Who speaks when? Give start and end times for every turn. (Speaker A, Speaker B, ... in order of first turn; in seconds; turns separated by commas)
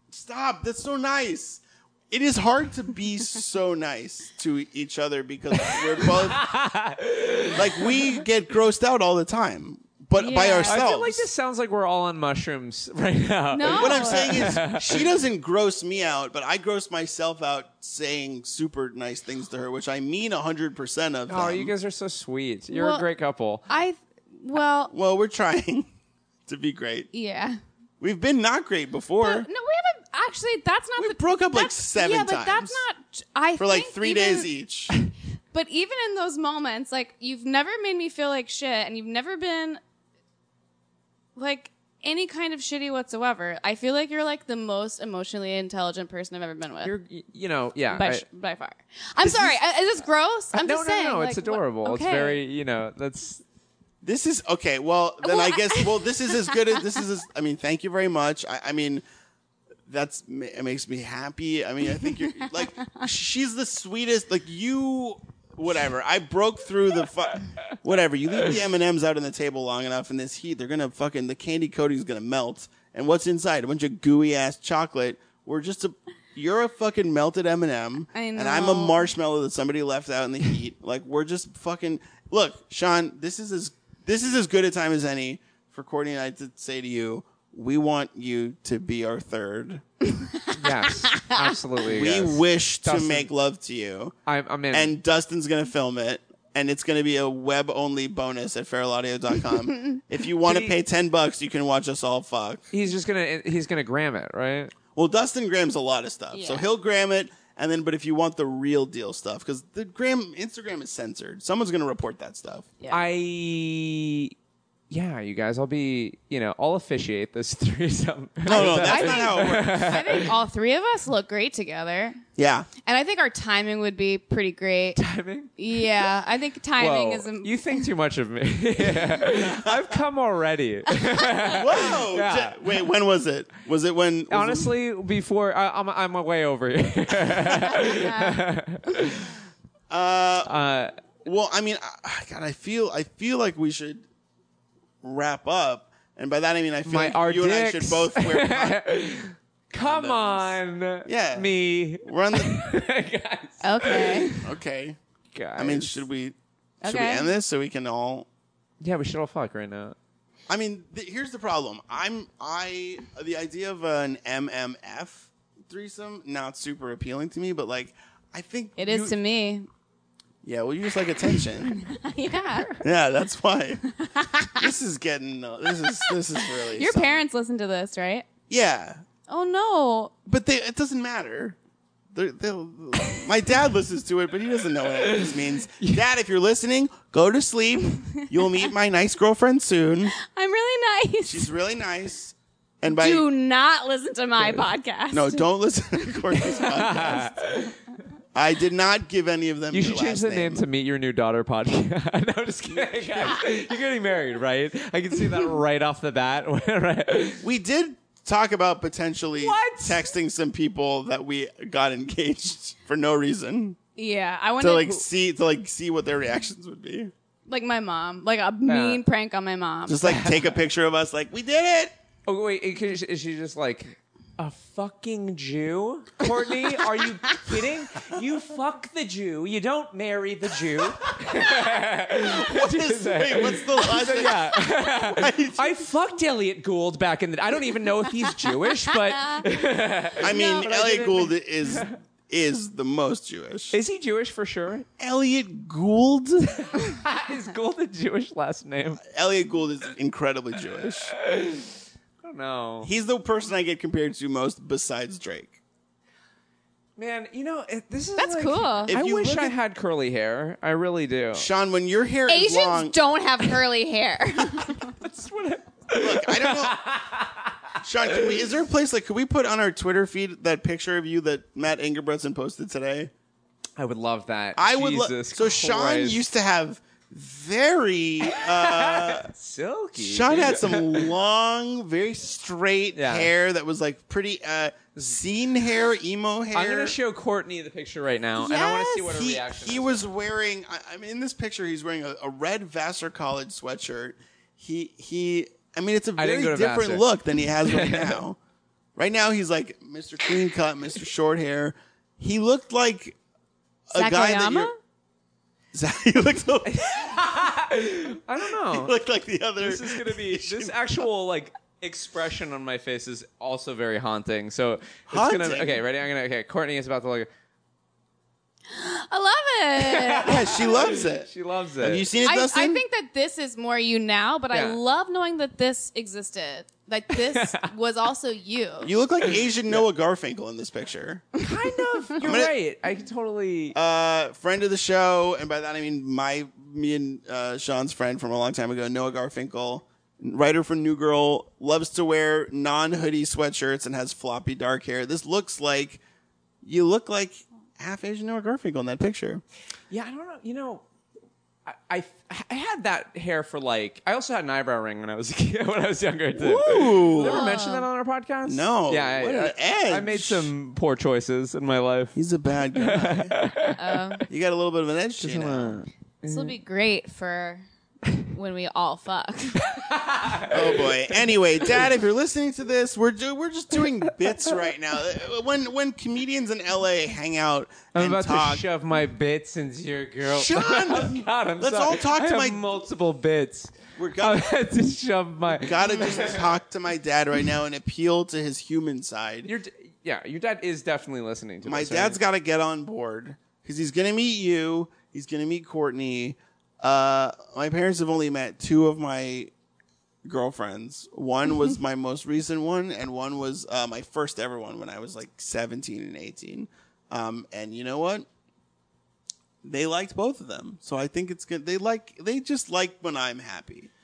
Speaker A: 0.1-6.5, Speaker B: 5.6-7.9, Speaker A: 7.5-11.2, Speaker C: 10.1-10.8, Speaker B: 10.7-15.0, Speaker C: 13.5-14.5, Speaker A: 13.7-21.7, Speaker B: 21.3-23.6, Speaker C: 22.7-23.0, Speaker C: 23.7-24.9, Speaker A: 24.9-25.9, Speaker A: 26.5-27.1, Speaker C: 27.1-27.6, Speaker A: 28.0-29.5, Speaker C: 29.2-34.5, Speaker A: 31.0-32.8, Speaker A: 33.6-34.9, Speaker C: 35.5-39.8, Speaker C: 41.4-46.9, Speaker B: 46.8-48.2, Speaker C: 47.9-52.4, Speaker A: 49.2-49.6, Speaker B: 50.5-53.4, Speaker A: 54.0-59.0, Speaker C: 55.2-56.8, Speaker A: 59.9-89.8, Speaker C: 78.1-79.1, Speaker B: 90.5-93.3, Speaker C: 91.0-91.5, Speaker A: 91.8-94.1, Speaker B: 94.2-95.0, Speaker A: 94.7-102.7, Speaker B: 100.4-100.7, Speaker B: 102.7-104.7, Speaker A: 104.9-112.7, Speaker C: 106.3-106.7, Speaker B: 112.9-114.3, Speaker B: 114.9-120.3, Speaker A: 118.5-119.9, Speaker C: 118.5-122.2, Speaker A: 122.4-122.7, Speaker C: 122.8-125.0, Speaker B: 125.0-125.5, Speaker C: 125.6-127.8, Speaker B: 126.8-132.6, Speaker A: 129.4-130.0, Speaker A: 131.5-134.7, Speaker B: 134.3-139.3, Speaker C: 137.9-138.4, Speaker A: 139.9-140.5, Speaker B: 140.4-140.9, Speaker A: 141.2-144.0, Speaker A: 145.0-148.8, Speaker B: 146.8-154.3, Speaker A: 149.8-152.6, Speaker C: 153.6-154.4, Speaker A: 154.4-155.0, Speaker B: 155.3-156.0, Speaker A: 155.6-158.3, Speaker C: 156.8-157.3, Speaker B: 158.8-159.9, Speaker A: 160.5-169.2, Speaker C: 168.8-169.7, Speaker A: 170.4-171.8, Speaker C: 171.4-172.8, Speaker A: 172.8-173.8, Speaker C: 174.0-174.7, Speaker A: 174.6-177.2, Speaker C: 176.0-178.3, Speaker A: 178.5-179.0, Speaker C: 179.3-180.1, Speaker A: 180.2-181.6, Speaker A: 182.1-190.1, Speaker C: 190.1-191.5, Speaker A: 191.2-193.3, Speaker C: 192.8-195.5, Speaker A: 195.1-197.4, Speaker C: 196.0-196.6, Speaker B: 196.7-197.8, Speaker A: 198.3-200.6, Speaker B: 199.7-207.4, Speaker A: 207.4-213.8, Speaker B: 209.4-210.1, Speaker C: 213.9-215.0, Speaker A: 214.6-217.1, Speaker C: 217.5-220.0, Speaker B: 218.7-219.0, Speaker A: 219.8-221.9, Speaker B: 220.0-220.5, Speaker B: 222.3-242.0, Speaker A: 231.1-235.8, Speaker C: 239.2-239.4, Speaker A: 240.2-243.7, Speaker C: 240.3-240.7, Speaker B: 243.7-244.9, Speaker A: 245.0-246.5, Speaker B: 246.7-249.0, Speaker A: 249.0-251.1, Speaker B: 251.1-252.9, Speaker A: 252.8-255.6, Speaker B: 257.0-261.5, Speaker C: 258.2-258.9, Speaker A: 258.9-259.5, Speaker A: 261.3-262.9, Speaker C: 262.3-264.9, Speaker B: 265.0-267.6, Speaker A: 265.9-266.8, Speaker A: 267.8-273.1, Speaker B: 273.8-276.2, Speaker A: 274.6-279.3, Speaker B: 278.3-281.1, Speaker A: 279.9-286.9, Speaker B: 282.9-283.3, Speaker B: 286.5-290.1, Speaker A: 288.4-298.4, Speaker B: 296.2-297.1, Speaker B: 297.6-298.2, Speaker A: 298.9-303.2, Speaker A: 303.9-304.7, Speaker C: 303.9-304.8, Speaker A: 305.7-307.2, Speaker B: 306.6-308.9, Speaker A: 308.5-310.9, Speaker B: 309.6-317.3, Speaker A: 315.1-315.8, Speaker C: 318.7-320.6, Speaker B: 319.8-322.1, Speaker A: 320.2-321.3, Speaker A: 321.8-322.8, Speaker C: 322.2-328.9, Speaker B: 324.5-324.8, Speaker B: 327.1-327.7, Speaker A: 328.8-331.3, Speaker B: 331.4-333.8, Speaker A: 332.2-332.5, Speaker A: 333.7-346.0, Speaker A: 346.6-349.4, Speaker B: 349.9-350.8, Speaker B: 351.6-362.1, Speaker A: 356.4-357.5, Speaker C: 357.2-357.9, Speaker A: 358.5-360.5, Speaker A: 362.1-363.3, Speaker B: 362.8-363.9, Speaker C: 363.8-364.2, Speaker A: 364.3-365.8, Speaker B: 365.2-366.6, Speaker C: 366.2-367.6, Speaker C: 368.2-369.8, Speaker B: 369.7-370.9, Speaker A: 370.5-378.6, Speaker B: 377.9-386.4, Speaker A: 380.3-382.8, Speaker A: 383.9-384.5, Speaker A: 385.6-389.5, Speaker B: 389.4-392.2, Speaker A: 391.6-399.5, Speaker A: 400.2-408.3, Speaker A: 409.6-413.9